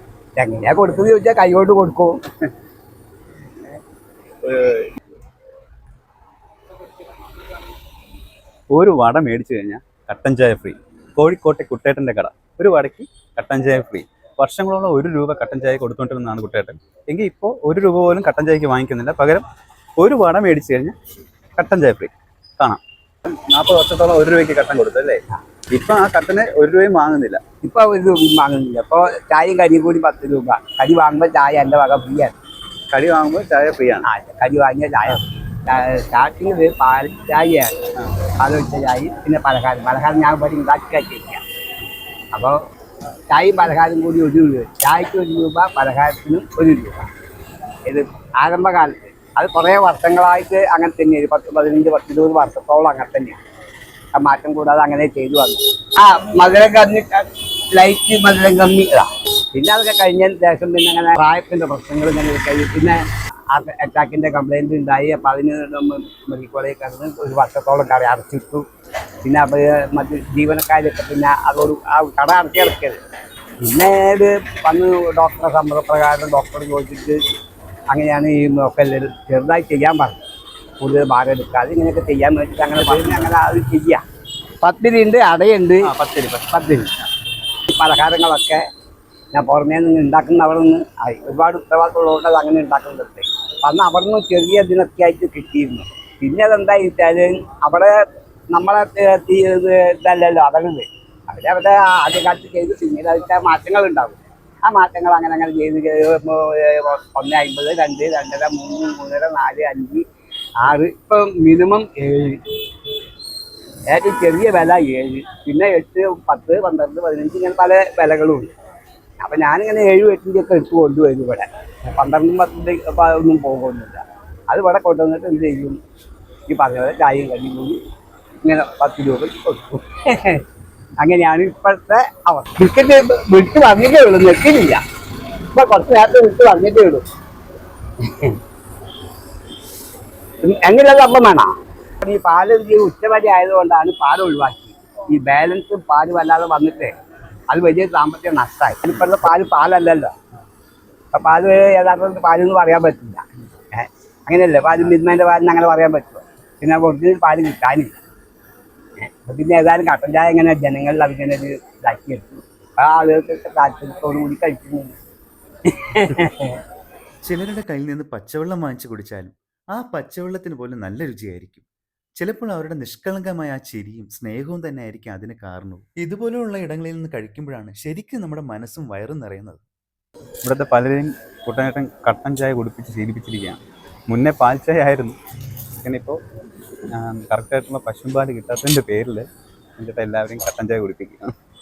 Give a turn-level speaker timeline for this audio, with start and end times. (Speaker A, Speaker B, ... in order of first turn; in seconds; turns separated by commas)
Speaker A: 0.4-2.1, Speaker B: 4.4-4.8, Speaker B: 8.7-19.4, Speaker B: 20.0-20.9, Speaker B: 21.6-27.4, Speaker A: 27.6-32.3, Speaker B: 32.9-34.0, Speaker A: 34.0-37.7, Speaker A: 38.4-41.4, Speaker A: 42.3-42.6, Speaker A: 43.3-47.1, Speaker A: 47.9-53.4, Speaker A: 54.1-63.0, Speaker A: 63.5-68.6, Speaker A: 69.2-73.0, Speaker A: 73.6-77.2, Speaker A: 77.9-80.2, Speaker A: 80.8-84.0, Speaker B: 82.8-83.3, Speaker A: 84.6-85.9, Speaker B: 85.8-86.8, Speaker A: 86.5-86.9, Speaker A: 87.7-88.6, Speaker A: 89.3-97.9, Speaker A: 98.5-110.0, Speaker A: 110.6-112.4, Speaker A: 113.9-118.5, Speaker A: 119.2-125.8, Speaker A: 126.5-127.8, Speaker A: 128.4-130.4, Speaker A: 131.0-134.8, Speaker A: 135.5-137.0, Speaker A: 138.0-138.4, Speaker A: 140.4-146.9, Speaker A: 147.5-150.1, Speaker A: 151.1-158.0, Speaker A: 159.0-164.9, Speaker A: 165.7-166.6, Speaker C: 167.2-171.6, Speaker C: 172.2-179.6, Speaker B: 180.4-185.2, Speaker B: 185.8-186.2, Speaker B: 186.9-189.2, Speaker B: 189.8-191.3